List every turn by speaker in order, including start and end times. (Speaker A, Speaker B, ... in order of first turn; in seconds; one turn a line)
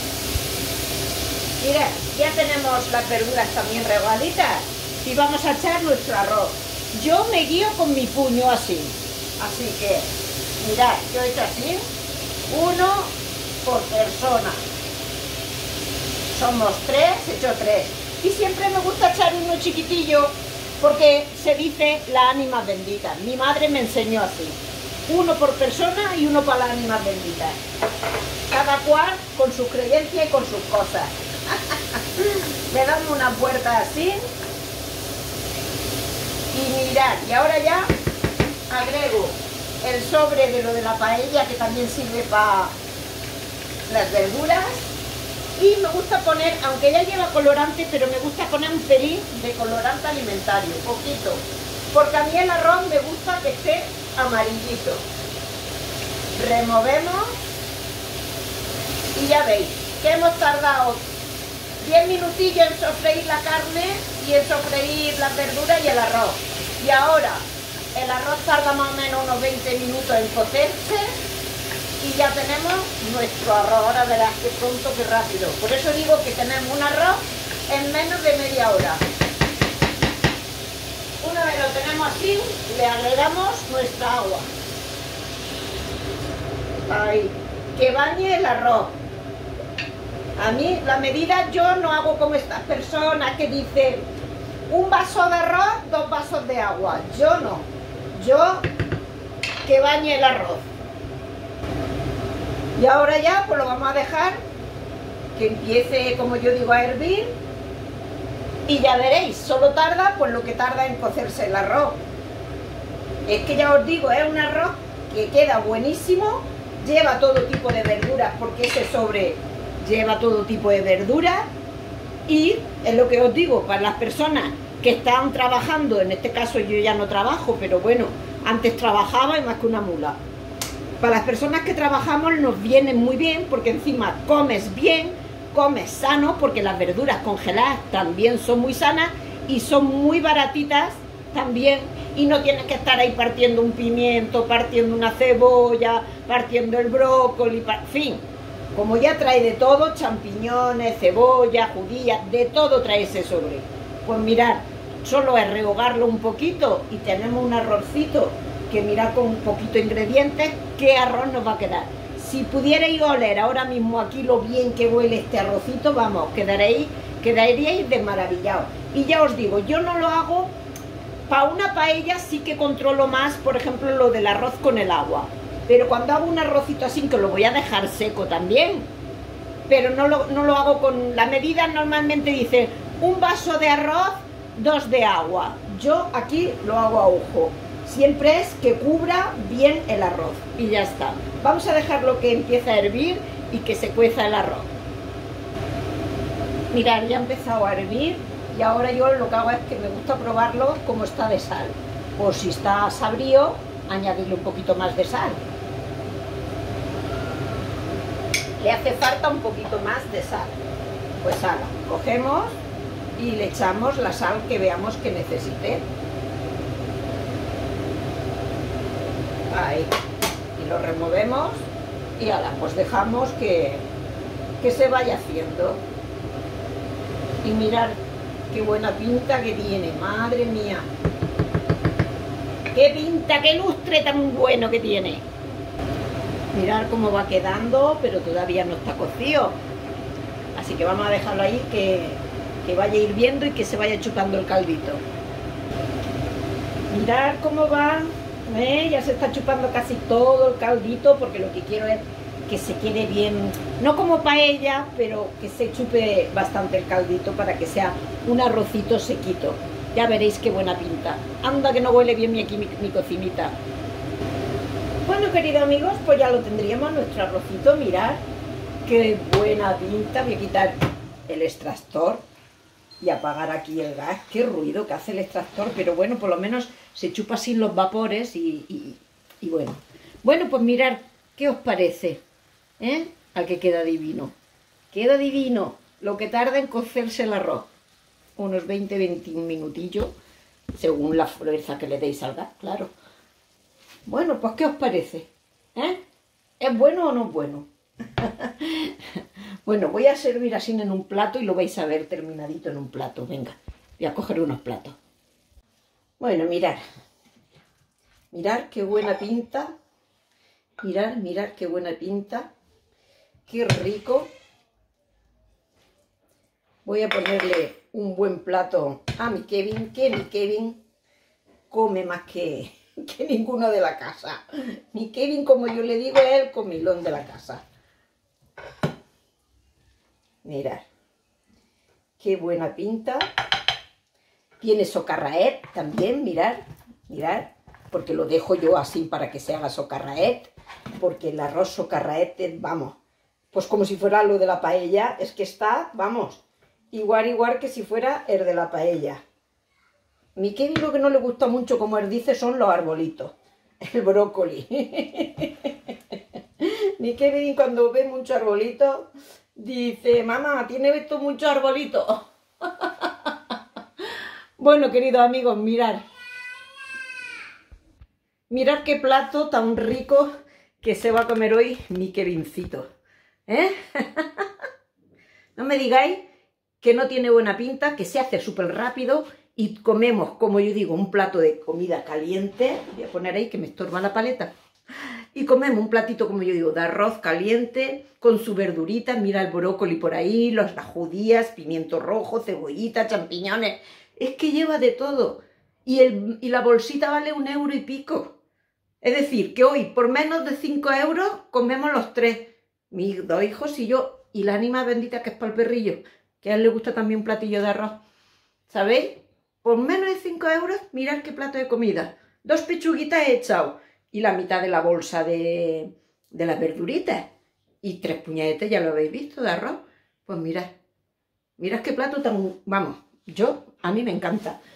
Speaker A: 1.6-11.8
Speaker A: 12.5-13.1
Speaker A: 13.6-14.6
Speaker A: 16.3-27.6
Speaker A: 28.5-34.2
Speaker A: 36.5-37.9
Speaker A: 38.7-42.7
Speaker A: 43.9-44.9
Speaker A: 45.5-55.0
Speaker A: 56.3-57.4
Speaker A: 59.1-61.0
Speaker A: 61.8-71.1
Speaker A: 72.0-79.0
Speaker A: 81.2-84.5
Speaker A: 86.8-89.0
Speaker A: 90.4-94.0
Speaker A: 94.7-98.7
Speaker A: 99.6-100.7
Speaker A: 102.8-104.4
Speaker A: 105.3-107.3
Speaker A: 108.7-112.0
Speaker A: 113.2-121.5
Speaker A: 122.3-130.2
Speaker A: 131.0-170.5
Speaker A: 171.3-178.9
Speaker A: 179.7-194.7
Speaker A: 196.7-205.4
Speaker A: 208.6-210.6
Speaker A: 211.2-212.6
Speaker A: 213.2-215.8
Speaker A: 219.5-219.9
Speaker A: 220.5-223.8
Speaker A: 224.6-225.8
Speaker A: 227.4-228.0
Speaker A: 228.5-230.8
Speaker A: 232.7-235.2
Speaker A: 236.5-239.6
Speaker A: 240.5-245.0
Speaker A: 246.9-263.6
Speaker A: 265.1-268.2
Speaker A: 268.8-272.2
Speaker A: 273.0-282.2
Speaker A: 282.8-284.3
Speaker A: 284.9-287.7
Speaker A: 288.4-290.1
Speaker A: 290.8-292.9
Speaker A: 294.1-296.0
Speaker A: 296.6-305.0
Speaker A: 306.2-306.8
Speaker A: 308.3-309.7
Speaker A: 310.8-312.5
Speaker A: 313.5-314.3
Speaker A: 316.8-320.8
Speaker A: 321.7-327.6
Speaker A: 330.4-330.9
Speaker A: 332.2-333.2
Speaker A: 334.6-343.0
Speaker A: 343.5-349.2
Speaker A: 350.4-355.9
Speaker A: 356.6-363.3
Speaker A: 364.6-366.0
Speaker A: 368.5-370.3
Speaker A: 370.8-372.9
Speaker A: 373.5-374.6
Speaker A: 375.6-376.2
Speaker A: 376.8-384.5
Speaker A: 385.3-398.4
Speaker A: 399.0-408.0
Speaker A: 408.7-417.2
Speaker A: 417.8-420.7
Speaker A: 421.6-424.6